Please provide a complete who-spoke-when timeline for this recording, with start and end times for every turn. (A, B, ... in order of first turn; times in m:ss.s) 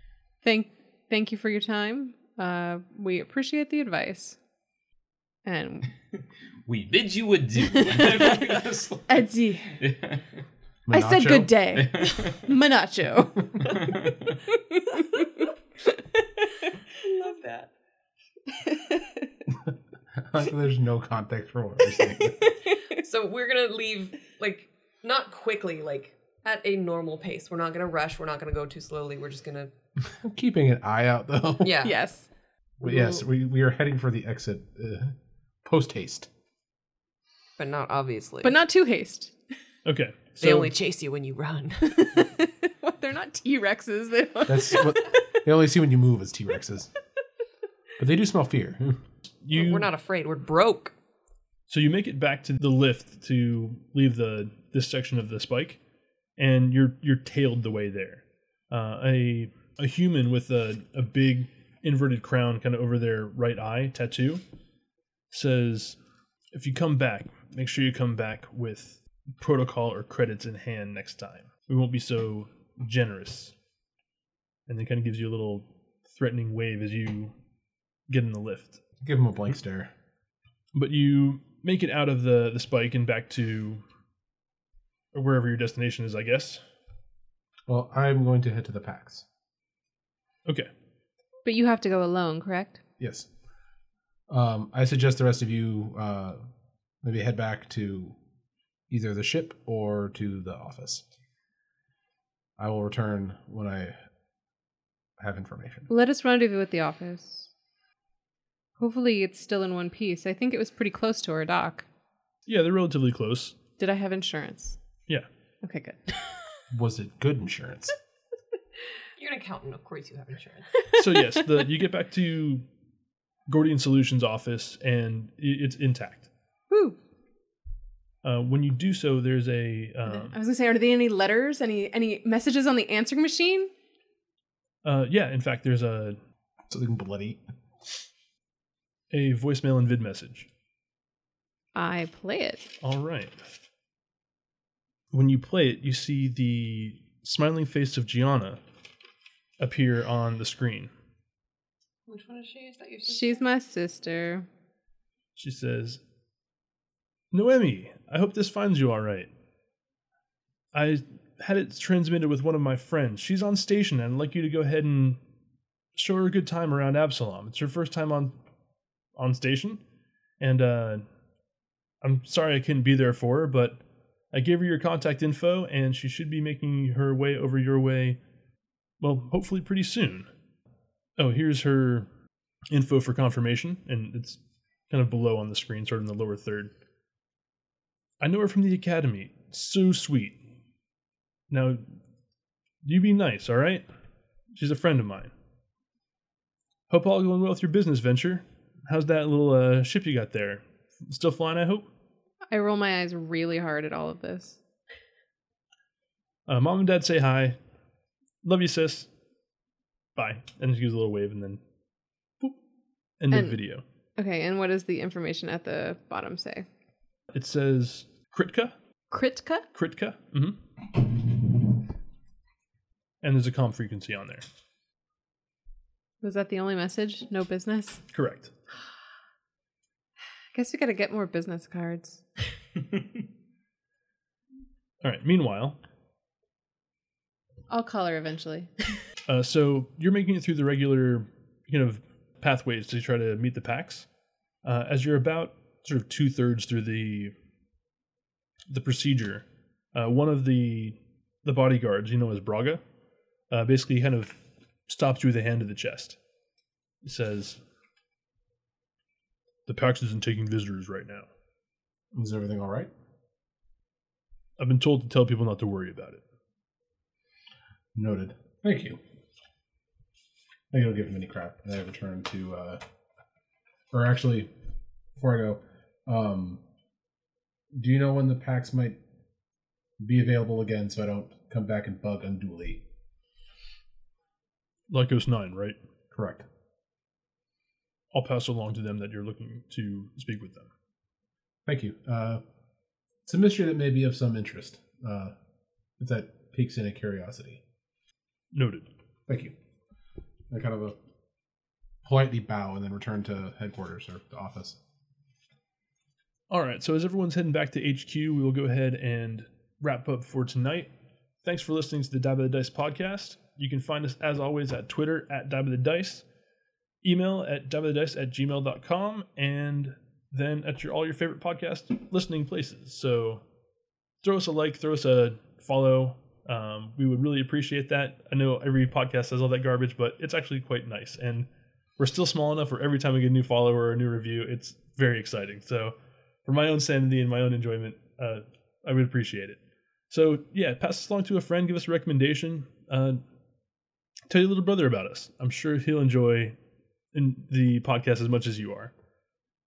0:00.4-0:04.4 A
0:05.4-0:05.9 A
0:06.6-0:09.2 B
0:07.7-0:09.8 A
0:09.8-0:10.2 B
0:10.8-0:11.6 C
0:10.9-0:16.7 A
0:11.7-0:12.4 B
0:13.8-0:14.1 B
0:17.0-0:17.7 D
0:18.6-0:19.3 A
0:20.1-0:22.4 C
0:21.9-0:23.0 A
0:23.0-0:29.7 D
0:30.0-0:31.8 C
0:31.6-0:32.0 D
0:31.8-0:32.3 A
0:32.8-0:36.3 C
0:32.8-0:33.2 A
0:37.6-0:38.6 D
0:38.4-0:39.4 A
0:39.8-0:40.7 E
0:40.4-0:42.2 D
0:41.9-0:45.4 A
0:44.5-0:46.9 C
0:48.0-0:49.0 C
0:49.4-0:49.9 E
0:49.5-0:50.9 D
0:51.7-0:55.8 E
0:56.4-1:04.4 E
1:05.3-1:06.0 E
1:06.5-1:13.5 E
1:14.7-1:17.3 E
1:18.1-1:18.8 E
1:19.0-1:19.9 C
1:20.7-1:23.8 E
1:25.1-1:26.6 E
1:27.7-1:29.2 C
1:31.4-1:32.8 A
1:33.0-1:33.3 C
1:34.3-1:36.4 C
1:37.0-1:38.2 C
1:38.9-1:41.0 C
1:42.6-1:44.0 C
1:45.2-1:45.9 C
1:45.9-1:47.5 A
1:48.8-1:51.8 A
1:52.5-1:53.6 E
1:53.8-1:54.8 A
1:55.6-1:56.6 A
1:56.7-1:57.9 C
1:59.2-2:00.7 D
2:00.9-2:02.6 E
2:03.5-2:06.3 E
2:06.7-2:07.0 A
2:08.2-2:10.4 E
2:10.0-2:13.7 A
2:14.8-2:16.2 E
2:16.7-2:17.4 C
2:19.1-2:20.5 E
2:21.7-2:22.7 A
2:22.8-2:23.4 E
2:25.1-2:28.6 E
2:29.6-2:30.9 E
2:32.1-2:33.4 D
2:33.0-2:34.5 A
2:35.4-2:36.0 E
2:37.3-2:39.3 E
2:40.7-2:45.2 E
2:45.9-2:48.4 E
2:49.2-2:49.8 E
2:50.4-2:51.0 E
2:52.0-2:53.8 E
2:54.3-2:58.2 E
2:59.0-3:00.3 E
3:01.2-3:02.1 E
3:02.7-3:06.7 E
3:08.2-3:10.4 E
3:11.5-3:11.9 E
3:12.8-3:13.8 E
3:14.5-3:15.3 E
3:16.9-3:21.9 E
3:22.5-3:24.6 A
3:26.5-3:27.6 E
3:28.4-3:29.1 E
3:30.2-3:31.6 E
3:33.2-3:33.8 E
3:33.3-3:33.6 A
3:34.2-3:36.7 A
3:37.3-3:38.7 E
3:39.1-3:39.7 A
3:39.7-3:40.6 E
3:43.2-3:44.4 E
3:46.2-3:48.0 A
3:48.1-3:48.5 E
3:50.5-3:52.2 A
3:55.0-3:55.8 E
3:57.7-3:59.0 A
3:59.2-4:04.1 E
4:04.6-4:07.3 E
4:08.7-4:12.8 E
4:13.5-4:16.2 E
4:17.0-4:17.6 E
4:19.7-4:21.3 E
4:22.1-4:22.9 C
4:24.6-4:26.2 E
4:27.9-4:29.0 C
4:30.7-4:32.8 C
4:33.9-4:34.5 C
4:35.2-4:36.6 C
4:37.7-4:39.0 C
4:40.0-4:42.8 C
4:44.9-4:45.8 E
4:46.1-4:46.4 C
4:48.1-4:50.7 E
4:51.6-4:52.4 C
4:53.2-4:55.3 C
4:56.0-4:57.6 C
4:58.5-4:58.9 E
4:59.3-4:59.5 C
5:00.5-5:01.0 C
5:02.0-5:04.8 C
5:06.5-5:10.9 E
5:11.4-5:16.2 E
5:17.0-5:23.4 E
5:24.2-5:31.5 E
5:32.0-5:39.6 E
5:40.1-5:43.2 E
5:44.3-5:46.6 E
5:47.1-5:48.9 E